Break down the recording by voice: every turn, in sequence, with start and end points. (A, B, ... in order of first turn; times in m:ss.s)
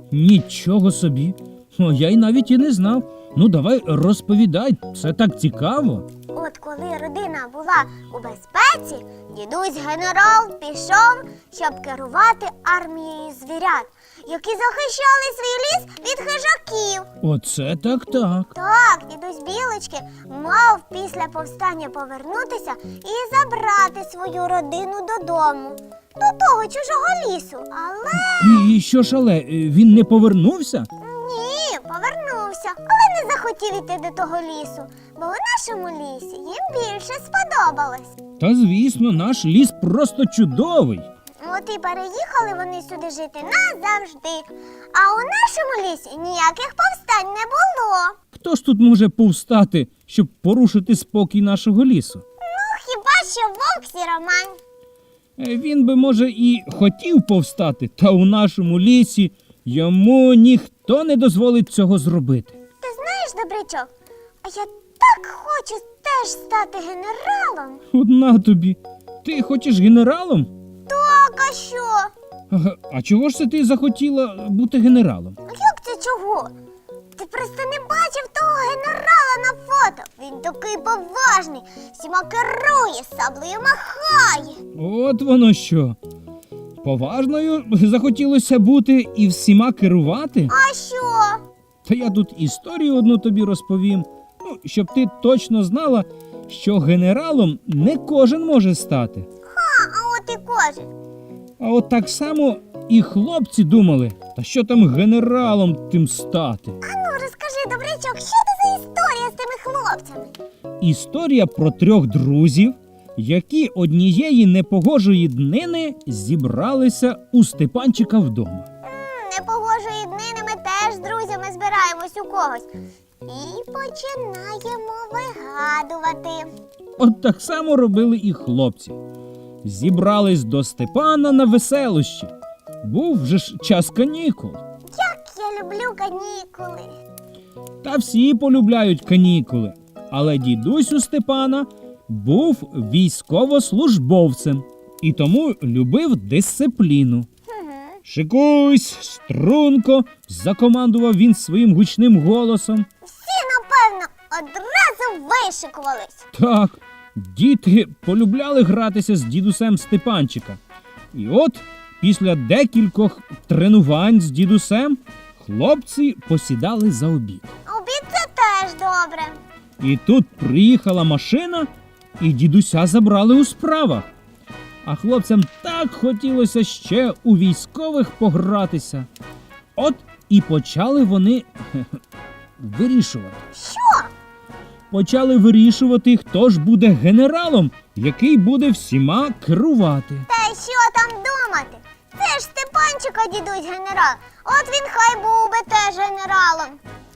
0:00.1-0:06.1 A
0:06.3-0:17.1 B
0:17.2-0:18.5 A
0:18.5-0:28.7 B
0:28.2-0:30.9 A
0:31.0-0:38.2 B
0:38.4-0:41.1 A
0:41.4-0:48.2 B
0:48.3-0:52.2 A
0:52.4-0:54.6 B
0:55.4-1:02.6 A
1:02.8-1:03.9 B
1:04.4-1:07.8 B
1:07.9-1:10.5 A
1:10.9-1:12.1 B
1:12.5-1:15.4 A
1:15.5-1:16.5 B
1:17.2-1:24.6 B
1:24.8-1:26.0 A
1:26.8-1:30.5 A
1:30.5-1:31.4 B
1:31.8-1:39.3 A
1:39.5-1:40.9 B
1:41.6-1:46.8 A
1:46.8-1:50.3 B
1:50.8-1:58.7 A
1:58.8-2:02.7 B
2:03.2-2:06.5 B
2:07.0-2:09.0 A
2:09.6-2:14.6 A
2:14.9-2:16.9 B
2:17.8-2:27.3 A
2:27.5-2:28.0 B
2:28.0-2:32.9 A
2:33.0-2:36.2 B
2:36.3-2:40.6 A
2:41.1-2:47.5 A
2:47.7-2:49.4 B
2:49.8-2:54.1 A
2:54.8-2:59.1 A
2:59.8-3:02.0 A
3:02.6-3:03.4 A
3:03.5-3:04.1 B
3:04.9-3:10.3 A
3:10.3-3:16.8 B